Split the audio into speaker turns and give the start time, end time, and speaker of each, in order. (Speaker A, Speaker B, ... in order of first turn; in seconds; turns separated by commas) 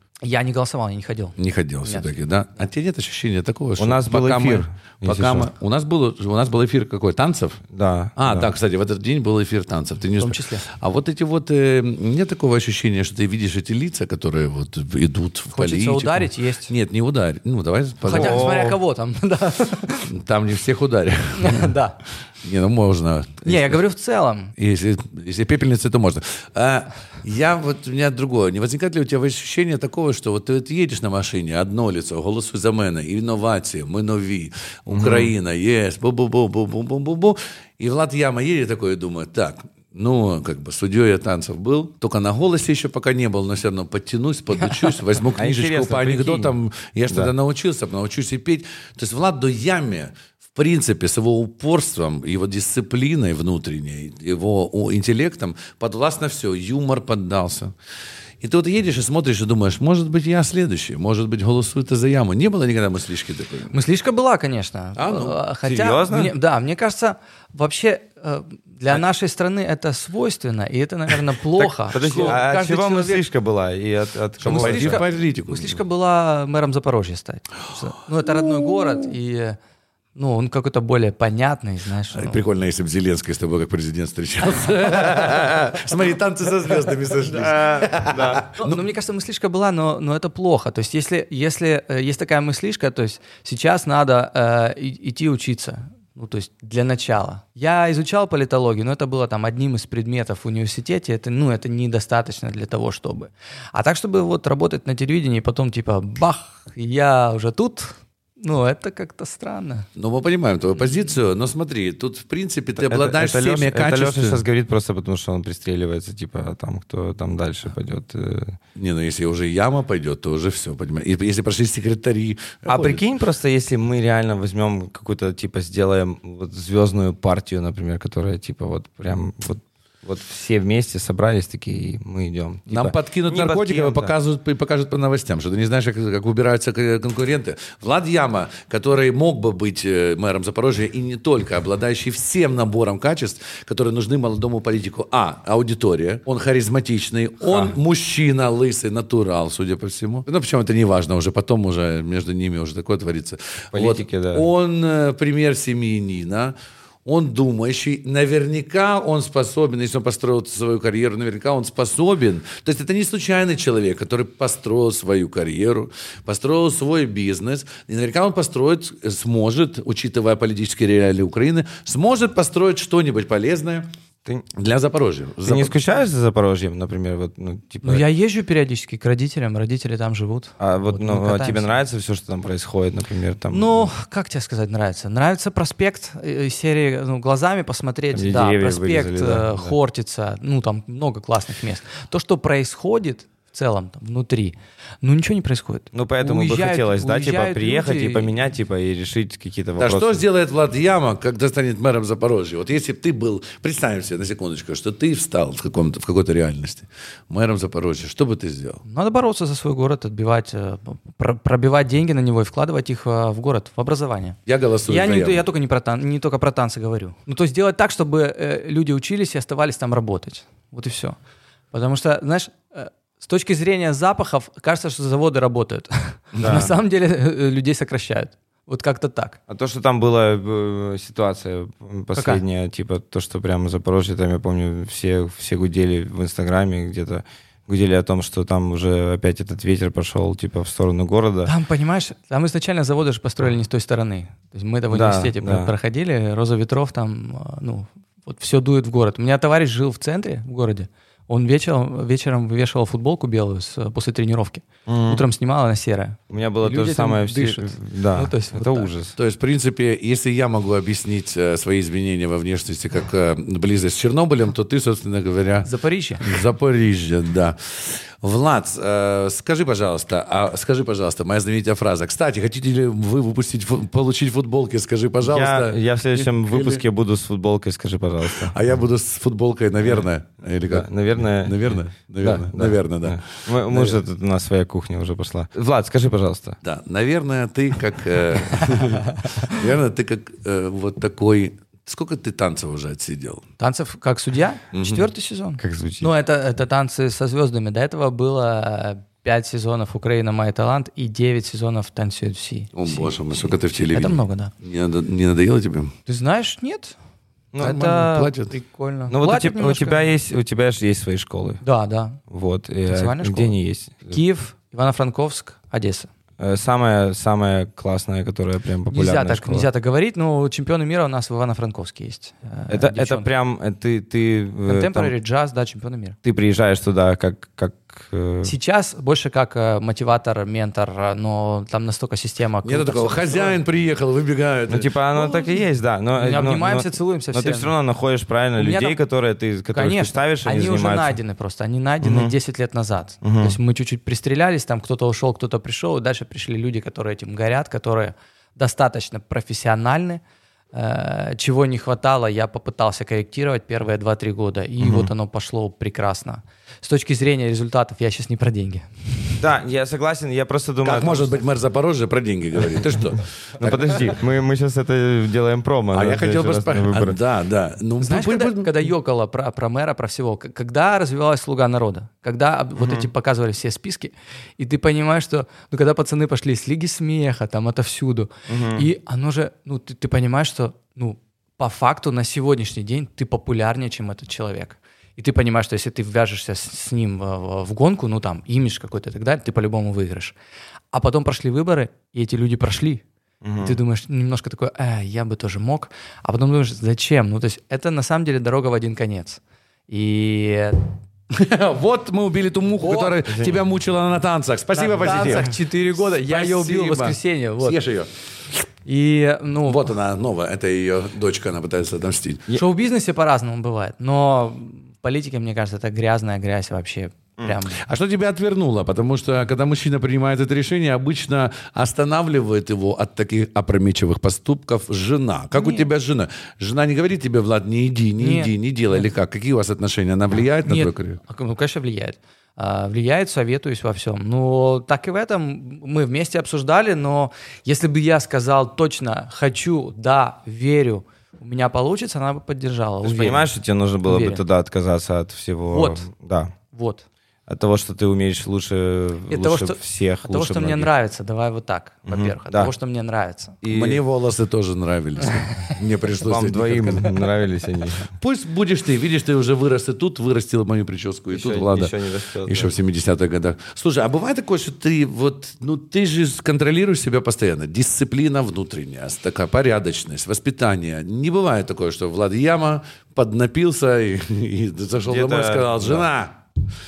Speaker A: 0.2-2.1, Speaker B: 1.4-7.6, Speaker C: 3.8-5.5, Speaker C: 7.7-8.5, Speaker B: 8.2-18.5, Speaker A: 10.2-10.6, Speaker A: 15.5-16.7, Speaker A: 18.0-20.1, Speaker C: 18.1-18.8, Speaker B: 20.1-21.7, Speaker A: 21.3-22.0, Speaker B: 22.4-23.8, Speaker A: 23.4-24.5, Speaker B: 24.6-57.7, Speaker C: 34.9-35.3, Speaker C: 45.4-46.5, Speaker B: 58.4-63.7, Speaker A: 63.7-73.2, Speaker B: 65.0-65.4, Speaker C: 65.6-66.3, Speaker C: 71.6-75.0, Speaker B: 71.9-73.0, Speaker B: 74.4-75.7, Speaker A: 74.5-79.6, Speaker A: 80.2-82.4, Speaker B: 82.1-88.8, Speaker C: 87.3-88.4, Speaker A: 88.6-109.9, Speaker B: 110.0-114.4, Speaker C: 112.8-118.6, Speaker B: 118.7-123.0, Speaker C: 122.7-134.1, Speaker B: 132.7-156.5, Speaker C: 147.4-147.7, Speaker C: 153.7-154.5, Speaker B: 157.1-173.9, Speaker B: 174.5-175.8, Speaker C: 175.4-178.0, Speaker A: 177.8-181.8, Speaker C: 180.6-183.9, Speaker A: 183.5-198.3, Speaker C: 188.1-189.7, Speaker C: 195.9-200.2, Speaker B: 199.8-208.8, Speaker A: 208.8-214.4, Speaker B: 214.5-215.4, Speaker A: 214.9-221.2, Speaker A: 221.7-229.4, Speaker C: 226.4-226.7, Speaker C: 229.5-241.5, Speaker A: 232.1-232.4, Speaker A: 241.4-258.9, Speaker C: 244.9-245.7, Speaker C: 254.9-255.2, Speaker C: 256.3-259.1, Speaker B: 259.2-265.7, Speaker A: 265.6-266.3, Speaker B: 266.2-276.8, Speaker C: 275.2-278.5, Speaker B: 278.3-284.0, Speaker C: 280.7-286.6, Speaker B: 286.6-293.4, Speaker A: 289.1-289.6, Speaker A: 293.6-304.5, Speaker B: 294.7-295.0, Speaker C: 295.6-296.1, Speaker B: 302.7-305.9, Speaker A: 306.1-306.9, Speaker C: 307.5-308.3, Speaker B: 307.6-308.5, Speaker A: 307.6-310.0, Speaker C: 309.1-311.6, Speaker A: 311.6-312.2, Speaker C: 312.3-314.2, Speaker A: 312.9-313.6, Speaker A: 314.1-316.1, Speaker C: 316.4-319.7, Speaker A: 318.9-323.3, Speaker C: 322.7-325.1, Speaker A: 324.6-326.2, Speaker C: 326.2-328.5, Speaker A: 328.4-333.6, Speaker B: 332.6-335.0, Speaker C: 334.7-341.2, Speaker A: 336.1-337.7, Speaker A: 338.6-339.0, Speaker A: 339.7-350.2, Speaker C: 342.0-342.3, Speaker C: 343.2-343.6, Speaker A: 350.7-359.4, Speaker C: 354.8-355.1, Speaker C: 359.4-361.3, Speaker B: 360.8-364.1, Speaker C: 363.6-367.2, Speaker B: 365.9-368.9, Speaker A: 368.0-390.3, Speaker C: 372.8-373.1, Speaker C: 378.5-378.9, Speaker A: 390.9-393.0, Speaker C: 393.4-393.8, Speaker A: 393.6-400.8, Speaker B: 401.3-408.1, Speaker A: 402.8-403.3, Speaker A: 404.7-407.8, Speaker C: 405.0-405.4, Speaker A: 408.9-409.9, Speaker B: 409.7-412.5, Speaker A: 412.5-417.8, Speaker B: 417.7-431.2, Speaker A: 425.5-425.9, Speaker A: 428.2-429.1, Speaker A: 430.6-443.5, Speaker C: 443.0-446.5, Speaker A: 444.0-444.4, Speaker A: 445.7-446.1, Speaker A: 446.7-447.0, Speaker C: 447.5-450.9, Speaker A: 449.3-453.6, Speaker C: 452.1-452.7, Speaker C: 453.6-454.0, Speaker B: 453.7-457.1, Speaker C: 456.2-458.1, Speaker B: 458.1-476.4, Speaker C: 461.3-462.7, Speaker C: 475.1-476.1